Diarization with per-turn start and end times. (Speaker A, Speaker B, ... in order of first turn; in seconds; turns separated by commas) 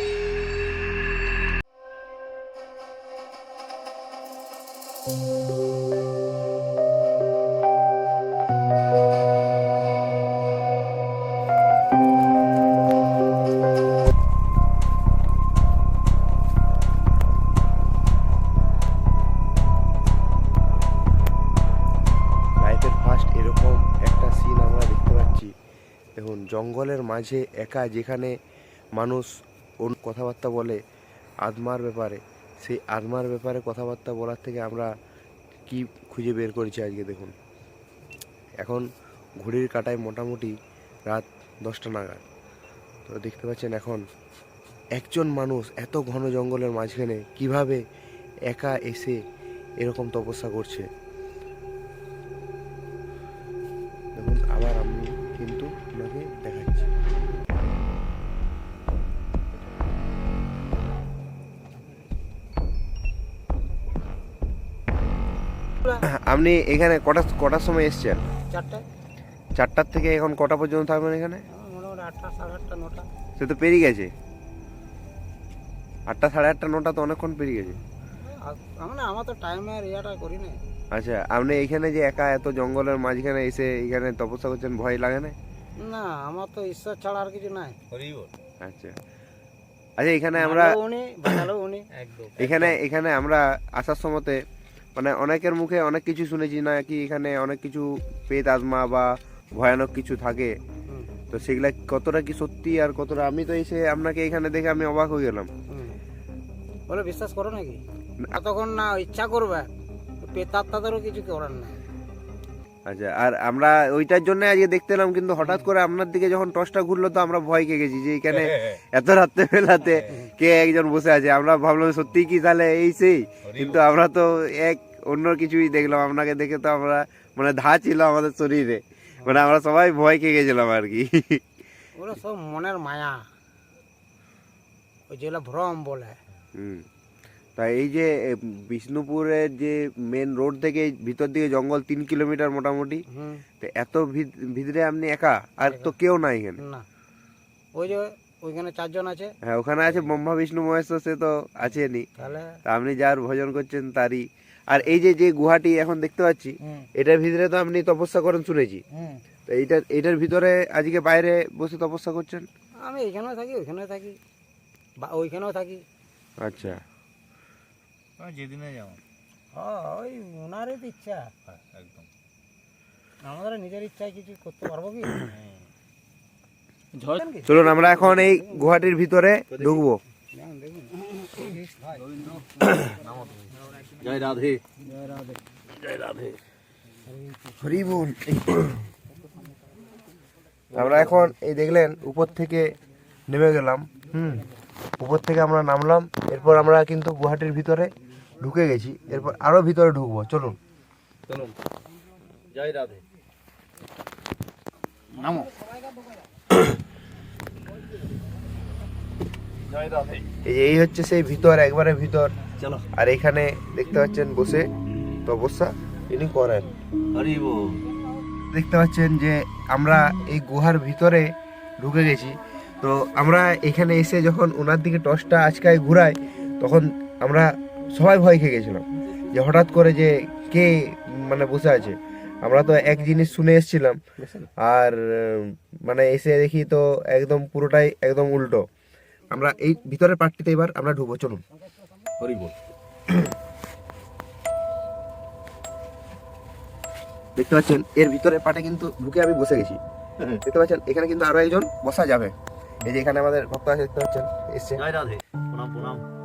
Speaker A: 22.6-25.5, Speaker A: 26.2-28.4, Speaker A: 28.9-30.8, Speaker A: 31.4-34.9, Speaker A: 35.7-37.3, Speaker A: 38.6-38.9, Speaker A: 39.4-40.5, Speaker A: 41.1-42.2, Speaker A: 43.1-44.0, Speaker A: 45.0-47.8, Speaker A: 48.5-49.2, Speaker A: 49.8-50.9, Speaker A: 54.2-56.9, Speaker A: 66.1-68.2, Speaker B: 68.5-68.8, Speaker A: 69.6-71.4, Speaker B: 71.5-73.1, Speaker A: 73.4-74.1, Speaker A: 76.1-77.8, Speaker B: 78.2-80.6, Speaker A: 80.9-85.4, Speaker B: 85.8-87.8, Speaker C: 87.9-88.3, Speaker A: 88.6-89.0, Speaker A: 90.0-90.8, Speaker B: 90.4-92.3, Speaker A: 92.4-94.4, Speaker C: 92.4-92.7, Speaker A: 95.0-100.6, Speaker A: 101.3-105.5, Speaker B: 105.7-106.0, Speaker B: 106.9-109.7, Speaker B: 110.2-111.8, Speaker A: 112.9-131.4, Speaker B: 115.4-115.7, Speaker C: 118.4-118.8, Speaker C: 123.5-123.8, Speaker B: 132.0-133.3, Speaker B: 135.1-136.2, Speaker A: 136.6-136.8, Speaker A: 137.6-143.0, Speaker B: 143.1-143.4, Speaker A: 143.6-146.6, Speaker B: 145.7-145.9, Speaker B: 146.6-146.9, Speaker B: 147.7-149.3, Speaker A: 149.4-152.1, Speaker B: 152.2-152.6, Speaker A: 152.7-158.8, Speaker A: 159.5-162.5, Speaker B: 162.8-164.2, Speaker B: 165.0-165.8, Speaker A: 166.4-166.8, Speaker C: 168.2-169.0, Speaker B: 169.5-171.3, Speaker C: 171.5-172.1, Speaker B: 173.2-175.3, Speaker B: 176.9-178.8, Speaker A: 177.4-180.0, Speaker B: 180.3-182.0, Speaker C: 184.0-184.6, Speaker C: 185.8-186.4, Speaker A: 187.6-188.9, Speaker C: 190.7-191.3, Speaker A: 190.7-192.7, Speaker A: 193.3-194.5, Speaker A: 195.0-200.6, Speaker C: 201.3-201.6, Speaker C: 202.5-203.0, Speaker C: 205.1-205.5, Speaker C: 209.7-210.2, Speaker A: 210.4-212.3, Speaker C: 212.6-212.9, Speaker A: 212.9-214.7, Speaker A: 215.2-216.7, Speaker C: 217.1-217.8, Speaker A: 218.5-234.0, Speaker A: 234.6-238.7, Speaker A: 239.3-241.4, Speaker C: 242.2-242.6, Speaker A: 247.4-254.8, Speaker C: 254.8-256.1